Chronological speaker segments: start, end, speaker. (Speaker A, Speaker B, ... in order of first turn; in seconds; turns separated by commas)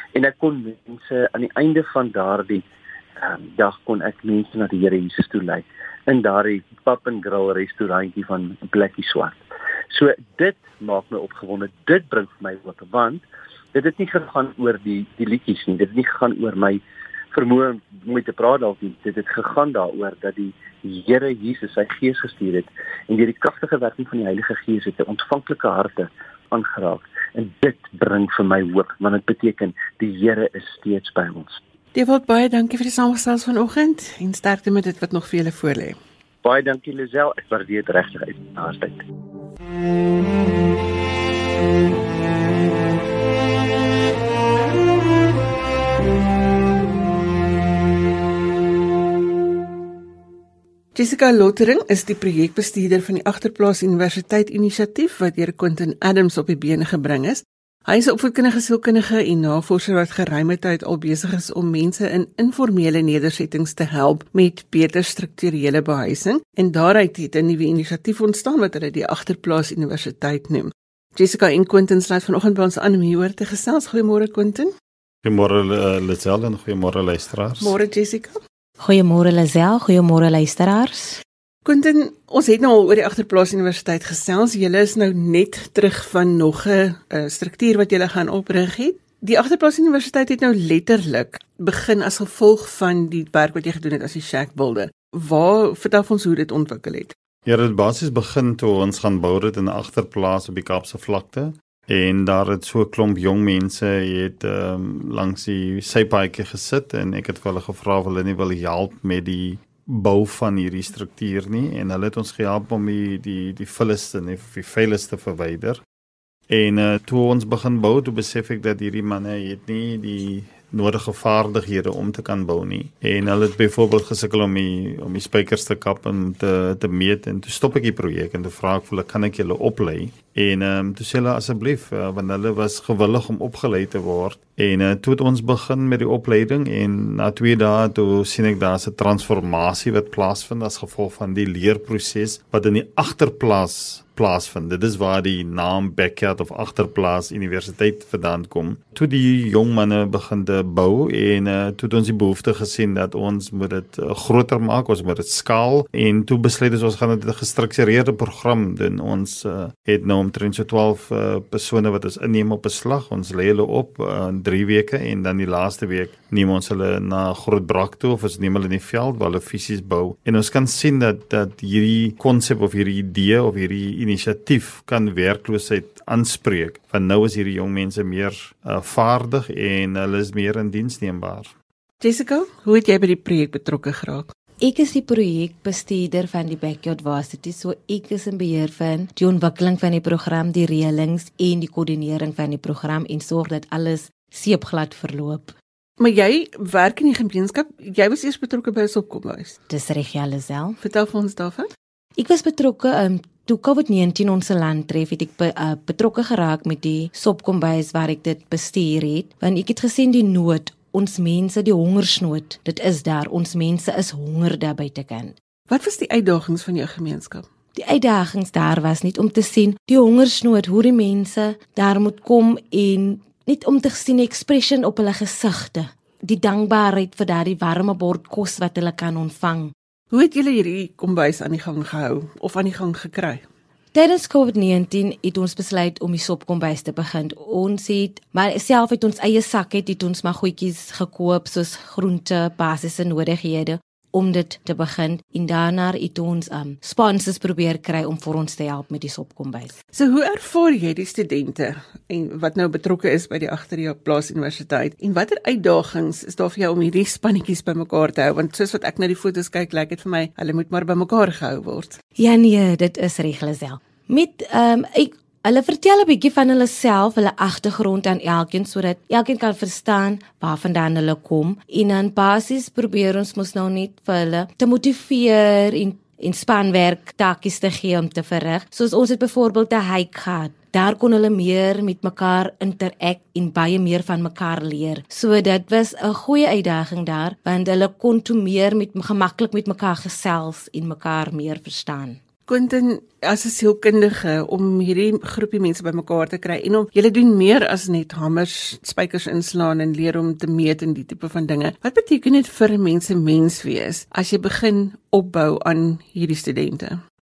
Speaker A: 0.1-2.6, Speaker A: 3.2-9.4, Speaker A: 9.9-16.8, Speaker A: 17.3-31.6, Speaker B: 31.9-36.0, Speaker A: 36.4-39.0, Speaker B: 50.9-74.7, Speaker C: 75.2-77.8, Speaker B: 77.6-78.4, Speaker D: 78.8-81.2, Speaker B: 81.6-97.1, Speaker C: 97.5-115.8, Speaker C: 116.5-181.5, Speaker B: 182.0-184.3, Speaker D: 184.6-195.5, Speaker B: 196.0-199.6, Speaker D: 199.7-200.8, Speaker B: 200.8-201.7, Speaker D: 202.2-215.3, Speaker B: 215.7-217.4, Speaker D: 217.8-229.7, Speaker B: 230.1-233.4, Speaker D: 233.9-249.8, Speaker B: 249.9-262.0, Speaker D: 262.2-292.2, Speaker B: 292.5-307.0